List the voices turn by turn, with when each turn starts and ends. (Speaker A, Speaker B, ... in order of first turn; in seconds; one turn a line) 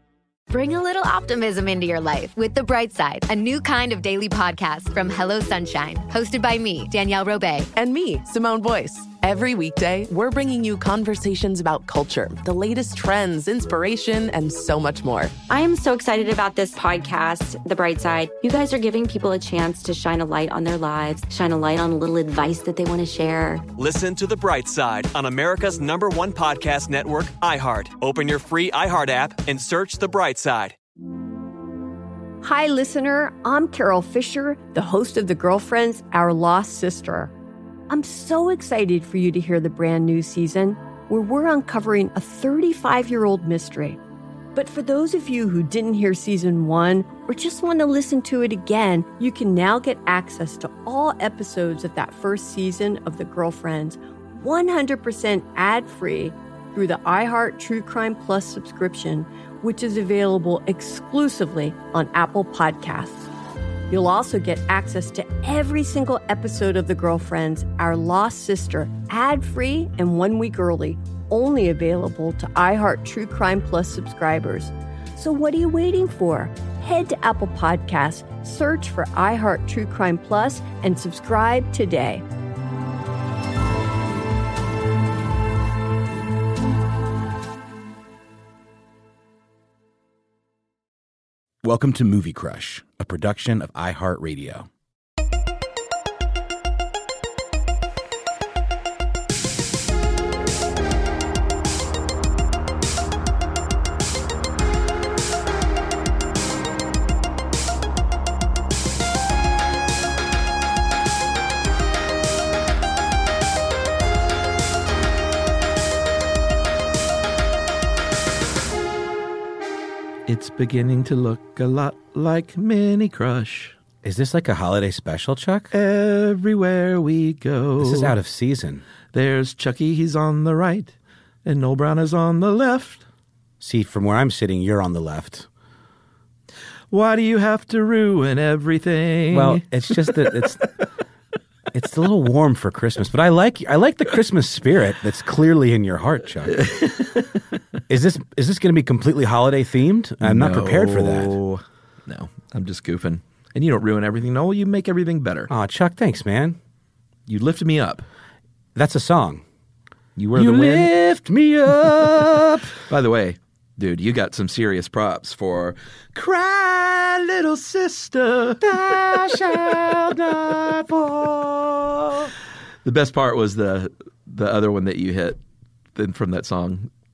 Speaker A: 0.5-7.7
Speaker B: 7.7-15.3
Speaker C: 15.5-23.6
Speaker D: 23.8-30.8
Speaker E: 32.4-37.3
Speaker E: 37.9-44.0
Speaker E: 44.5-63.3
Speaker E: 63.9-82.2
Speaker F: 91.6-94.7
Speaker G: 120.3-123.7
Speaker F: 124.0-125.7
Speaker G: 125.7-128.2
Speaker F: 127.8-128.8
Speaker G: 129.1-130.9
Speaker G: 131.4-133.0
Speaker F: 133.6-135.5
Speaker G: 136.9-140.6
Speaker F: 139.3-140.7
Speaker F: 141.7-146.6
Speaker G: 146.5-147.4
Speaker F: 147.9-151.4
Speaker G: 150.2-155.5
Speaker F: 155.5-156.6
Speaker G: 157.3-158.0
Speaker F: 158.7-159.4
Speaker G: 160.2-160.9
Speaker F: 160.3-162.7
Speaker G: 162.8-168.9
Speaker F: 168.6-172.3
Speaker G: 172.8-175.4
Speaker G: 175.9-176.9